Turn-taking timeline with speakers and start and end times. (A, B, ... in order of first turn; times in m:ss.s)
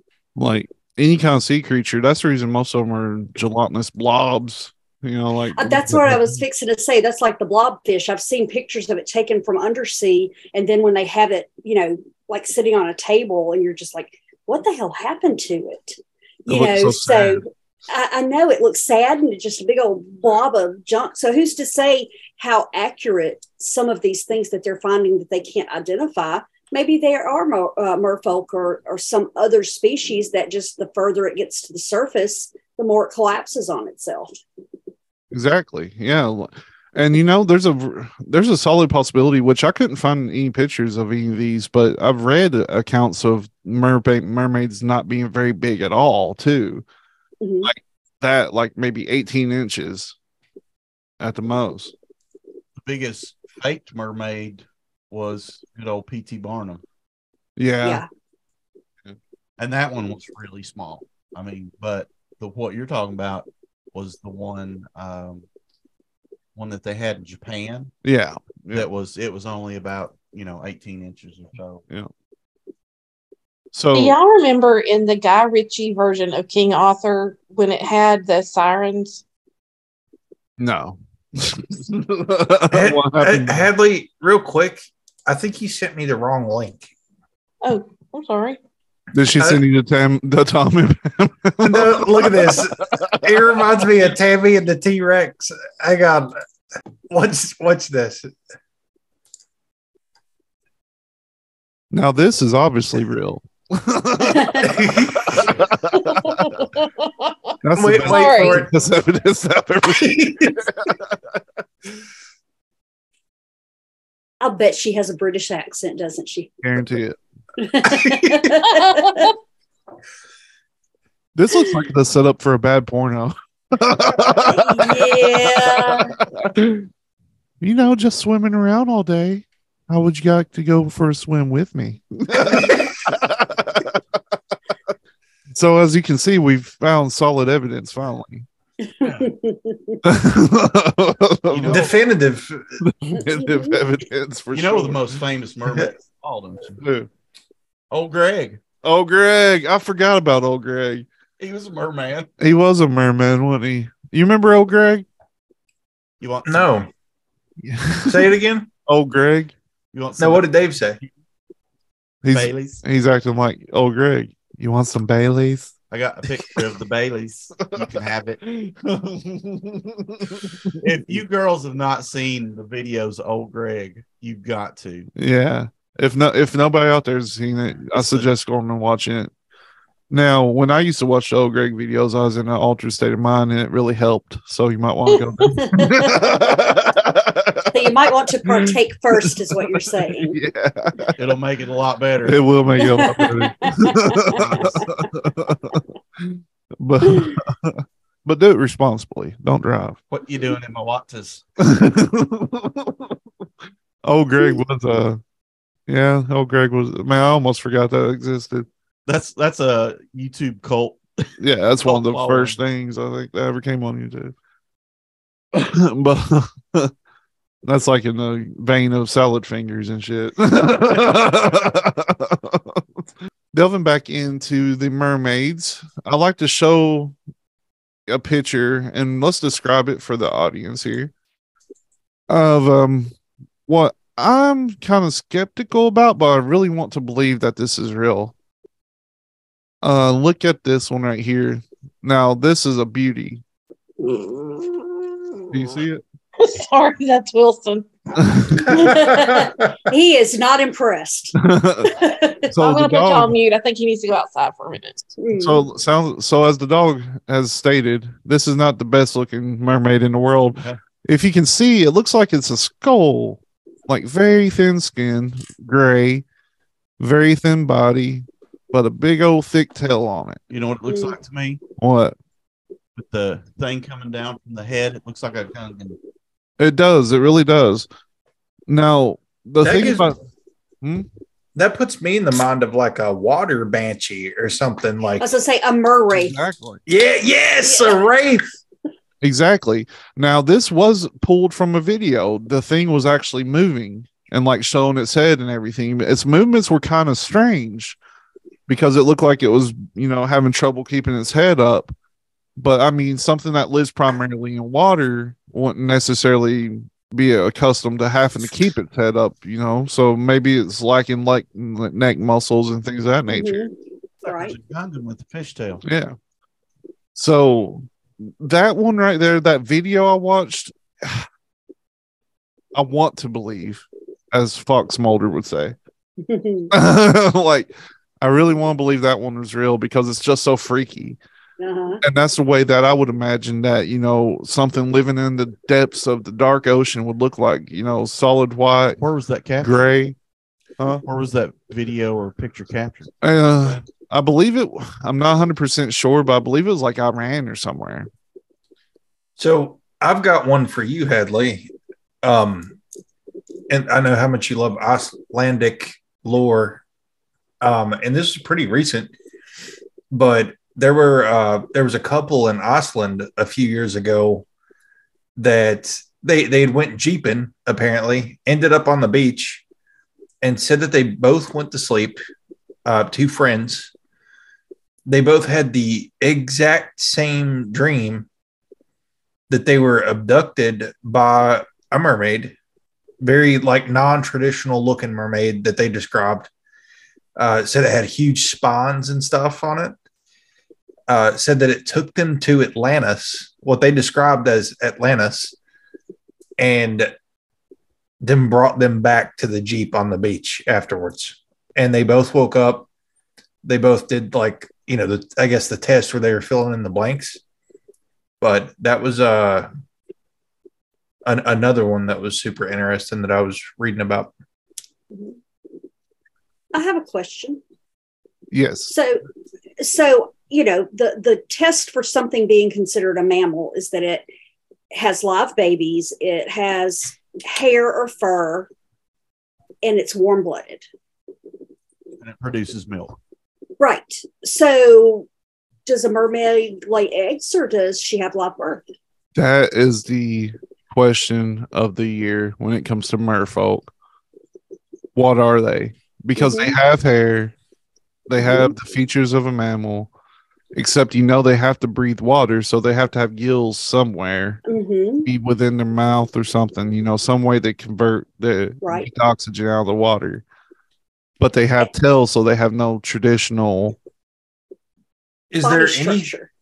0:00.4-0:06.4 A
0:05.5-0:34.4 B
0:16.5-0:17.4 A
0:35.3-0:46.8 A
0:47.4-0:47.7 B
0:47.6-0:50.2 A
0:51.2-0:51.9 A
0:52.8-0:56.8 C
0:57.6-0:58.0 A
0:57.8-0:58.1 B
0:59.6-1:05.4 C
1:06.5-1:07.9 C
1:08.0-1:08.9 A
1:08.7-1:11.8 C
1:13.7-1:14.2 A
1:13.9-1:19.2 D
1:20.6-1:23.7 A
1:22.7-1:26.9 E
1:27.6-1:28.6 D
1:29.1-1:33.4 A
1:29.4-1:29.6 E
1:31.6-1:36.4 E
1:37.1-1:38.3 E
1:41.9-1:46.6 A
1:44.2-1:44.7 B
1:44.6-1:45.5 E
1:46.2-1:47.5 D
1:47.6-1:51.4 A
1:47.8-1:48.7 E
1:48.0-1:48.6 D
1:49.9-1:50.6 E
1:54.4-1:56.6 B
1:56.6-1:57.2 A
1:57.6-1:59.3 B
1:57.8-1:58.5 E
1:58.6-1:59.3 D
2:01.3-2:06.9 A
2:04.3-2:06.1 B
2:07.6-2:14.2 A
2:12.5-2:12.8 E
2:15.5-2:18.4 A
2:19.0-2:20.0 B
2:19.0-2:19.3 C
2:20.0-2:21.9 A
2:21.5-2:21.9 C
2:21.7-2:22.7 E
2:22.8-2:25.2 A
2:23.1-2:23.8 B
2:24.5-2:26.8 C
2:26.8-2:27.1 A
2:27.9-2:28.6 C
2:28.8-2:31.1 A
2:31.4-2:32.3 C
2:32.4-2:35.0 A
2:36.2-2:36.9 C
2:36.5-2:36.9 E
2:37.6-2:39.5 A
2:38.0-2:38.7 E
2:39.9-2:41.1 C
2:40.2-2:41.0 E
2:42.2-2:45.7 A
2:42.3-2:42.8 C
2:45.9-2:48.4 C
2:47.7-2:51.2 A
2:50.8-2:55.1 C
2:55.2-2:59.3 A
2:57.8-2:58.2 C
3:00.1-3:07.9 A
3:05.1-3:06.3 B
3:07.7-3:10.4 B
3:08.4-3:11.2 A
3:11.2-3:12.4 C
3:12.2-3:20.0 A
3:12.8-3:14.9 B
3:20.1-3:21.4 C
3:21.6-3:23.2 A
3:24.0-3:25.2 A
3:25.9-3:28.7 A
3:29.0-3:31.3 C
3:31.4-3:34.3 A
3:31.8-3:32.6 C
3:35.5-3:36.9 A
3:37.6-3:43.0 A
3:43.5-3:47.2 A
3:48.1-3:51.1 A
3:52.3-3:53.1 A
3:53.7-3:58.3 A
3:59.8-4:03.4 A
4:04.0-4:05.5 D
4:05.5-4:06.0 A
4:06.4-4:07.9 D
4:08.2-4:08.6 A
4:08.6-4:09.8 E
4:08.7-4:12.5 B
4:11.4-4:13.4 A
4:12.6-4:15.1 D
4:15.2-4:15.6 B
4:15.3-4:26.2 A
4:27.0-4:30.4 A
4:30.5-4:31.6 C
4:30.9-4:31.2 B
4:31.8-4:32.2 A
4:33.0-4:36.0 C
4:36.6-4:37.9 A
4:38.7-4:40.2 A
4:39.6-4:40.2 E
4:40.8-4:41.1 A
4:41.5-4:45.3 E
4:45.2-4:46.4 B
4:46.1-4:46.8 A
4:46.9-4:48.4 E
4:47.6-4:48.0 B
4:49.2-4:58.0 A
4:58.7-5:01.9 A
5:02.6-5:13.6 A
5:13.3-5:13.7 B
5:14.2-5:15.8 C
5:14.2-5:14.6 B
5:15.8-5:16.2 A
5:17.1-5:21.3 A
5:22.7-5:25.8 A
5:26.2-5:26.7 B
5:26.7-5:27.7 A
5:28.2-5:31.2 A
5:31.6-5:32.0 B
5:32.0-5:39.0 A
5:39.0-5:39.7 C
5:39.6-5:40.2 A
5:40.8-5:41.0 A
5:41.0-5:43.8 C
5:43.2-5:48.1 A
5:49.4-5:51.7 E
5:52.2-5:52.8 E
5:53.7-5:56.8 E
5:57.6-5:59.1 E
6:00.1-6:04.4 E
6:05.4-6:09.6 E
6:10.4-6:12.2 E
6:12.8-6:13.9 E
6:15.0-6:18.3 E
6:19.5-6:22.6 E
6:23.2-6:26.5 E
6:27.4-6:30.0 E
6:31.1-6:35.5 E
6:36.6-6:37.1 E
6:38.2-6:42.9 E
6:43.6-6:47.4 E
6:48.4-6:49.7 E
6:51.2-6:54.3 E
6:55.1-6:55.4 B
6:56.7-6:57.6 B
6:58.5-6:58.9 A
6:58.9-6:59.2 B
6:59.8-7:04.2 B
7:04.9-7:08.7 B
7:09.8-7:10.8 B
7:12.2-7:13.2 C
7:13.8-7:15.3 B
7:15.8-7:18.8 B
7:19.3-7:23.9 A
7:25.1-7:27.5 A
7:26.4-7:26.7 B
7:28.3-7:30.1 A
7:28.4-7:28.7 B
7:30.7-7:34.6 A
7:34.6-7:35.3 B
7:35.2-7:40.4 A
7:38.8-7:39.1 B
7:41.4-7:44.0 A
7:45.5-7:46.3 E
7:45.6-7:46.5 B